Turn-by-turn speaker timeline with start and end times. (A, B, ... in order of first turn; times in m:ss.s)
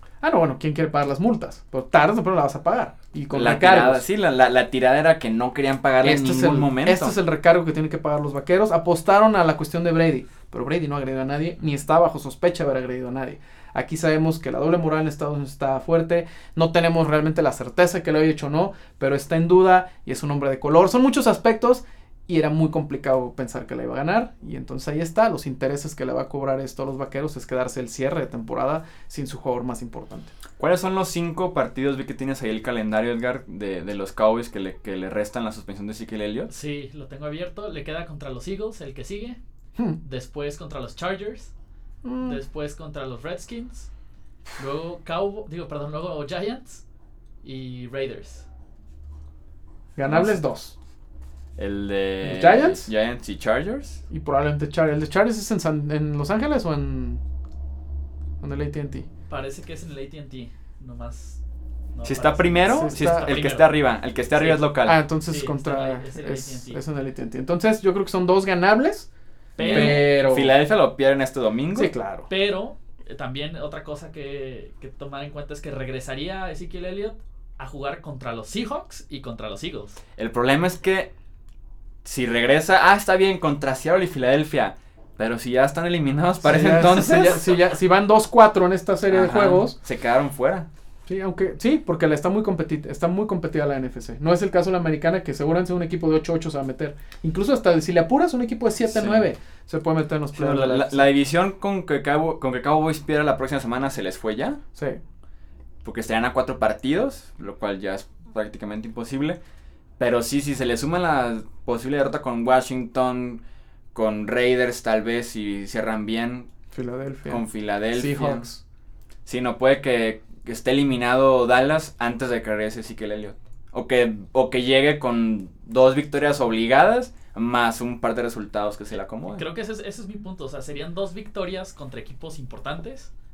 0:00.2-0:04.0 A
0:03.3-0:07.2 B
0:06.0-0:30.3 A
0:30.6-0:36.5 B
0:36.5-0:39.4 C
0:40.0-0:41.5 C
0:42.0-0:42.4 A
0:42.2-0:43.9 C
0:44.6-0:46.8 C
0:47.4-0:48.5 C
0:50.0-0:50.8 A
0:50.1-0:50.4 B
0:51.6-0:54.0 B
0:52.2-0:52.9 A
0:54.1-0:57.2 A
0:58.4-0:59.1 A
0:59.3-1:01.4 C
1:02.0-1:03.8 C
1:02.0-1:05.0 B
1:02.7-1:03.4 A
1:04.3-1:04.6 C
1:04.8-1:09.1 A
1:05.3-1:06.8 C
1:09.6-1:10.0 C
1:09.6-1:11.9 B
1:09.6-1:10.5 A
1:11.8-1:12.3 A
1:12.3-1:20.0 C
1:20.2-1:21.1 B
1:22.0-1:27.6 B
1:26.4-1:29.8 A
1:29.1-1:30.7 B
1:31.1-1:41.0 A
1:38.9-1:39.3 B
1:40.3-1:44.6 B
1:44.8-1:45.0 A
1:45.8-1:49.4 B
1:50.0-1:53.4 B
1:53.9-1:56.5 B
1:56.7-1:58.6 A
1:57.3-1:58.5 B
1:59.3-2:09.4 B
2:09.3-2:13.1 C